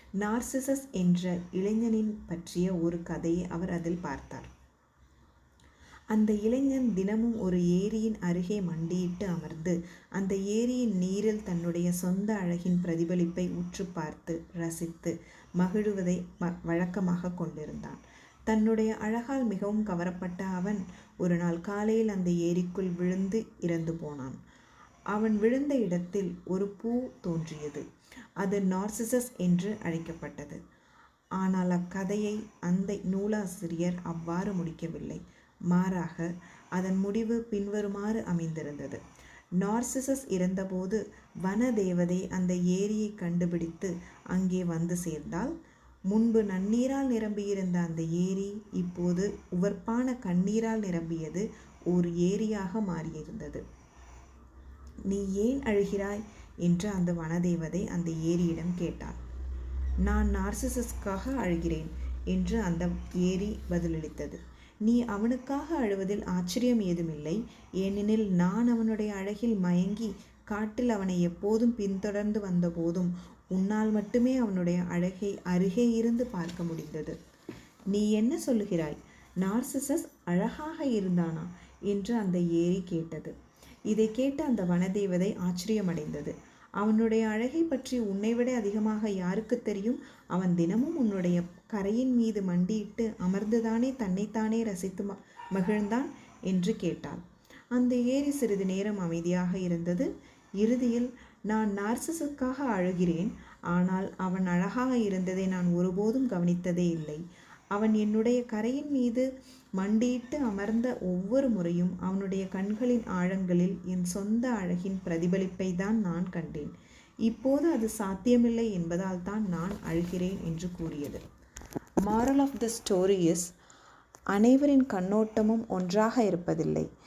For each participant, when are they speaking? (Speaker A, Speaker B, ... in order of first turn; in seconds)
Speaker A: 0.2-4.5, 6.1-24.4, 25.1-27.9, 28.4-30.6, 31.4-39.0, 39.6-45.5, 46.1-53.6, 55.1-59.2, 60.0-77.2, 77.9-83.3, 83.9-116.7, 117.3-121.2, 122.0-123.5, 124.3-126.9